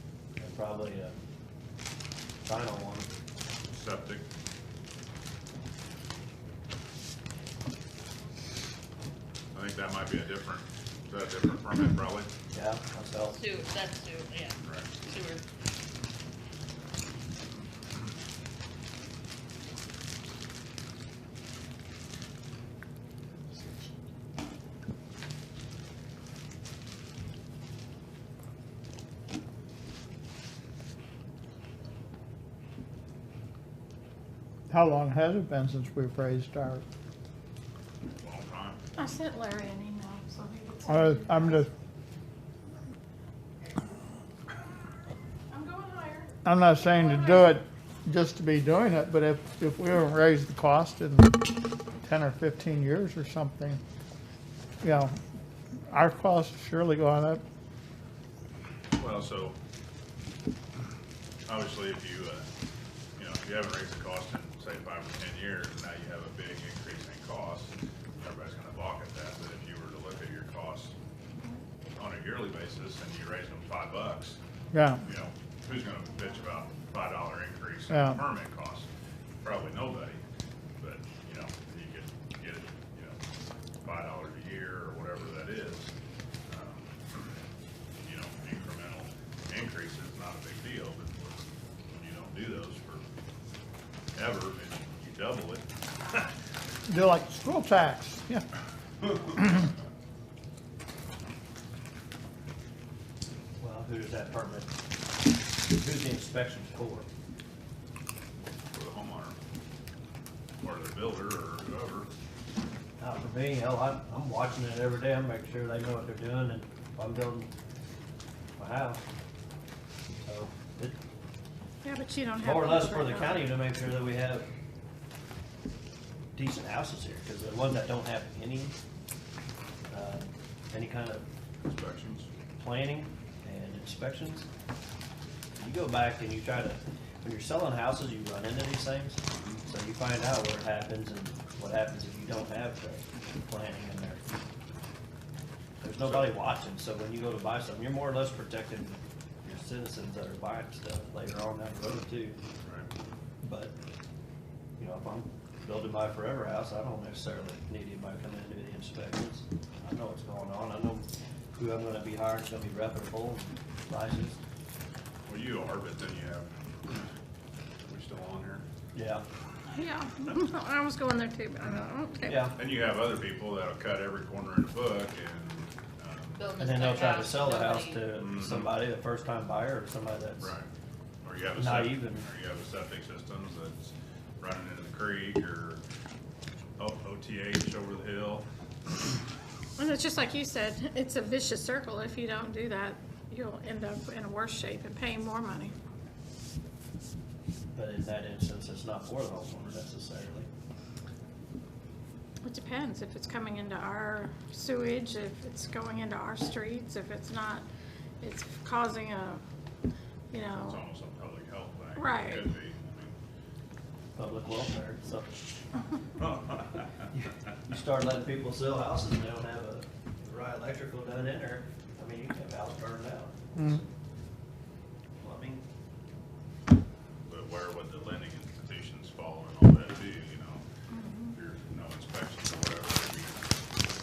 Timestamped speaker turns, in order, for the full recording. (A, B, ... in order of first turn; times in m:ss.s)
0:00.4-0:01.1 A
0:02.4-0:03.1 A
0:03.7-0:04.2 B
0:09.5-0:12.3 B
0:12.5-0:13.4 A
0:13.3-0:15.4 C
0:14.6-0:14.9 B
0:34.7-0:36.8 D
0:38.0-0:38.8 B
0:39.0-0:41.6 E
0:40.9-0:41.7 D
0:45.5-0:47.5 E
0:46.4-0:51.4 D
0:52.0-0:53.8 D
0:54.8-0:55.1 D
0:55.9-0:57.4 D
0:59.0-0:59.6 B
1:01.4-1:02.4 B
1:03.2-1:10.9 B
1:11.9-1:14.4 B
1:14.7-1:15.0 D
1:15.0-1:18.9 B
1:17.9-1:18.2 D
1:19.4-1:20.2 B
1:20.8-1:23.2 B
1:23.8-1:25.9 B
1:26.5-1:27.3 B
1:28.0-1:31.4 B
1:31.9-1:33.0 B
1:34.1-1:36.3 B
1:36.9-1:38.4 D
1:43.6-1:44.7 A
1:45.6-1:47.1 A
1:48.7-1:49.4 B
1:50.6-1:52.1 B
1:53.0-1:57.5 A
1:58.6-1:59.0 A
2:00.2-2:01.0 A
2:01.8-2:03.5 E
2:02.4-2:04.5 A
2:06.3-2:08.7 A
2:09.9-2:11.2 A
2:11.6-2:12.3 B
2:12.6-2:14.5 A
2:15.6-2:24.2 A
2:19.3-2:19.6 B
2:25.8-2:32.4 A
2:26.0-2:26.3 B
2:33.4-2:33.7 A
2:34.8-2:44.4 A
2:45.3-2:47.1 B
2:47.8-2:48.6 B
2:48.9-2:49.2 A
2:49.7-2:52.4 E
2:52.2-2:52.5 A
2:52.5-2:56.4 B
2:56.4-2:58.0 C
2:56.6-3:00.5 A
2:58.1-2:58.7 B
3:00.4-3:00.7 B
3:01.2-3:05.8 B
3:01.6-3:02.2 A
3:06.8-3:08.4 B
3:09.8-3:15.7 E
3:17.7-3:20.5 A
3:22.4-3:27.7 E
3:28.2-3:29.4 E
3:30.3-3:30.8 E
3:30.6-3:33.1 B
3:31.9-3:32.5 E
3:34.2-3:35.6 A
3:36.2-3:36.8 B
3:37.1-3:43.9 A
3:43.5-3:43.8 D
3:45.2-3:45.6 A
3:47.3-3:50.6 B
3:50.9-3:51.3 E
3:51.3-3:53.4 B